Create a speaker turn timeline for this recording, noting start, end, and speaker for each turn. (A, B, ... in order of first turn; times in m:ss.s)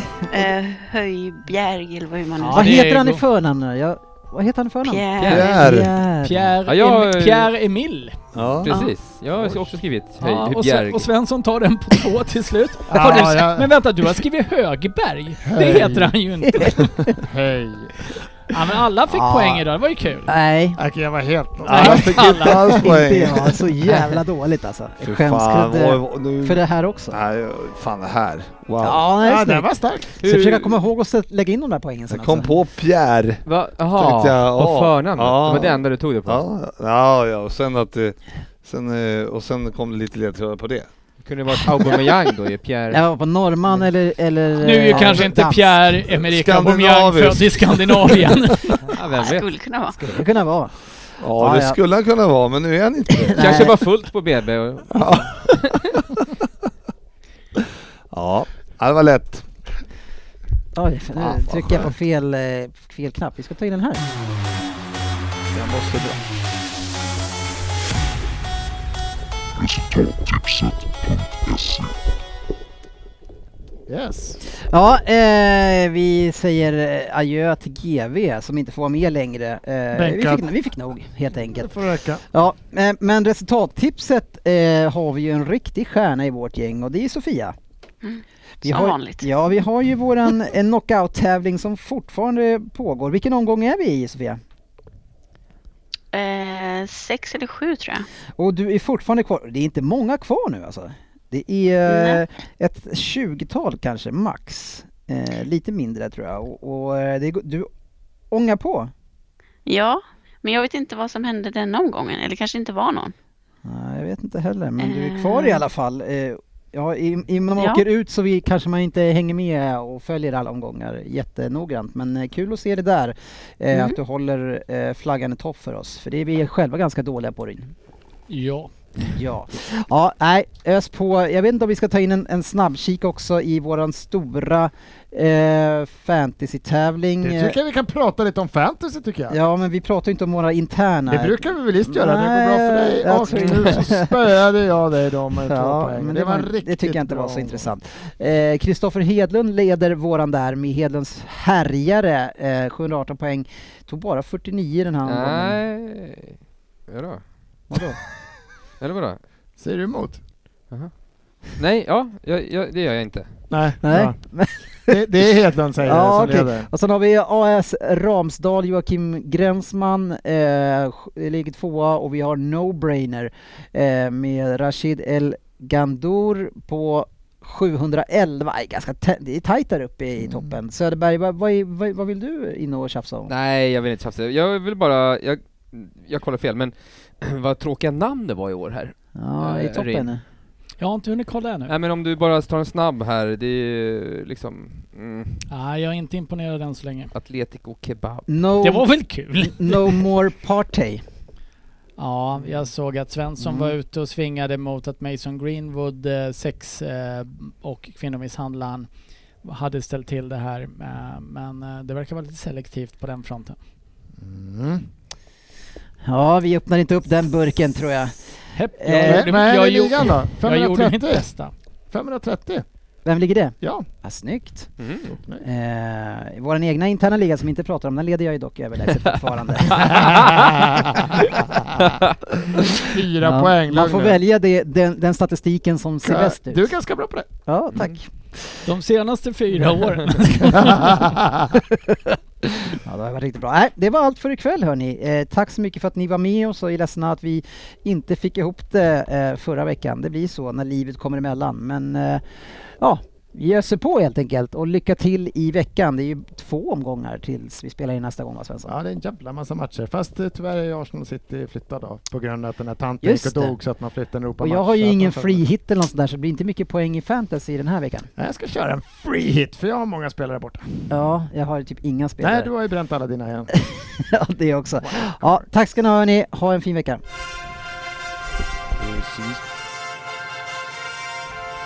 0:00.3-0:02.8 A
0:02.4-0:03.2 B
0:02.5-0:06.5 C
0:04.8-0:05.6 A
0:05.2-0:05.6 D
0:05.2-0:05.9 E
0:06.2-0:08.2 B
0:06.7-0:07.5 D
0:08.3-0:08.8 E
0:08.5-0:11.1 D
0:08.7-0:09.0 A
0:10.2-0:17.2 B
0:12.9-0:13.7 F
0:12.9-0:13.2 C
0:15.4-0:16.1 F
0:16.5-0:17.2 C
0:17.3-0:17.9 F
0:18.5-0:20.3 B
0:19.1-0:19.6 C
0:20.3-0:20.8 C
0:20.8-0:22.6 F
0:21.6-0:23.7 E
0:21.8-0:22.8 B
0:22.8-0:27.2 C
0:23.9-0:24.2 D
0:25.0-0:29.0 E
0:28.8-0:32.5 C
0:29.2-0:30.2 F
0:30.2-0:30.8 D
0:32.1-0:40.9 E
0:33.4-0:36.4 D
0:41.2-0:43.0 D
0:42.9-0:45.7 C
0:44.6-0:48.9 B
0:44.9-0:45.2 E
0:46.2-0:48.5 E
0:48.9-0:49.5 D
0:49.0-0:50.0 A
0:49.9-0:50.8 C
0:51.2-0:53.7 E
0:51.4-0:51.8 C
0:53.2-0:53.8 C
0:53.3-0:56.0 D
0:55.0-0:55.6 E
0:57.6-0:59.5 E
1:00.8-1:04.0 C
1:01.2-1:01.9 E
1:13.9-1:14.4 F
1:14.7-1:27.6 C
1:19.9-1:20.5 F
1:21.5-1:22.2 F
1:28.0-1:29.2 A
1:28.6-1:34.4 C
1:36.1-1:38.1 A
1:38.4-1:47.7 C
1:41.9-1:42.2 A
1:48.3-1:48.9 C
1:49.7-1:53.1 A
1:53.6-2:07.7 C
1:54.8-1:55.6 A
1:57.6-1:57.8 A
2:03.7-2:04.0 A
2:08.3-2:08.7 B
2:09.0-2:17.6 C
2:17.2-2:19.4 F
2:19.3-2:24.1 C
2:21.1-2:27.7 F
2:23.4-2:23.7 D
2:25.4-2:35.6 C
2:35.1-2:37.3 D
2:37.7-2:38.0 C
2:38.8-2:39.2 D
2:39.6-2:40.2 F
2:40.7-2:43.4 D
2:43.5-2:44.2 F
2:43.8-2:45.0 C
2:44.9-2:46.7 F
2:45.8-3:03.3 C
3:03.3-3:10.1 D
3:09.2-3:10.2 C
3:10.8-3:11.7 B
3:11.7-3:15.5 D
3:15.5-3:17.1 B
3:17.1-3:18.3 D
3:18.3-3:21.0 C
3:18.6-3:20.0 B
3:22.0-3:28.9 B
3:23.4-3:23.7 C
3:29.4-3:33.6 B
3:34.2-3:34.9 F
3:36.0-3:38.2 C
3:38.6-3:41.5 B
3:38.8-3:39.3 C
3:39.0-3:41.3 F
3:41.9-3:42.6 F
3:43.0-3:44.7 C
3:44.8-3:45.2 D
3:45.4-3:50.2 C
3:49.8-3:50.5 D
3:49.9-3:51.8 F
3:52.5-3:56.7 C
3:52.7-3:54.2 F
3:56.0-3:57.3 F
3:57.5-3:58.1 C
3:58.6-4:01.1 B
4:01.0-4:01.5 F
4:02.7-4:12.2 C
4:12.8-4:18.7 C
4:18.7-4:25.4 F
4:23.0-4:23.6 C
4:24.4-4:28.1 C
4:28.2-4:30.9 F
4:30.9-4:32.5 C
4:32.2-4:33.5 F
4:33.5-4:37.0 C
4:34.8-4:35.5 F
4:38.7-4:39.4 F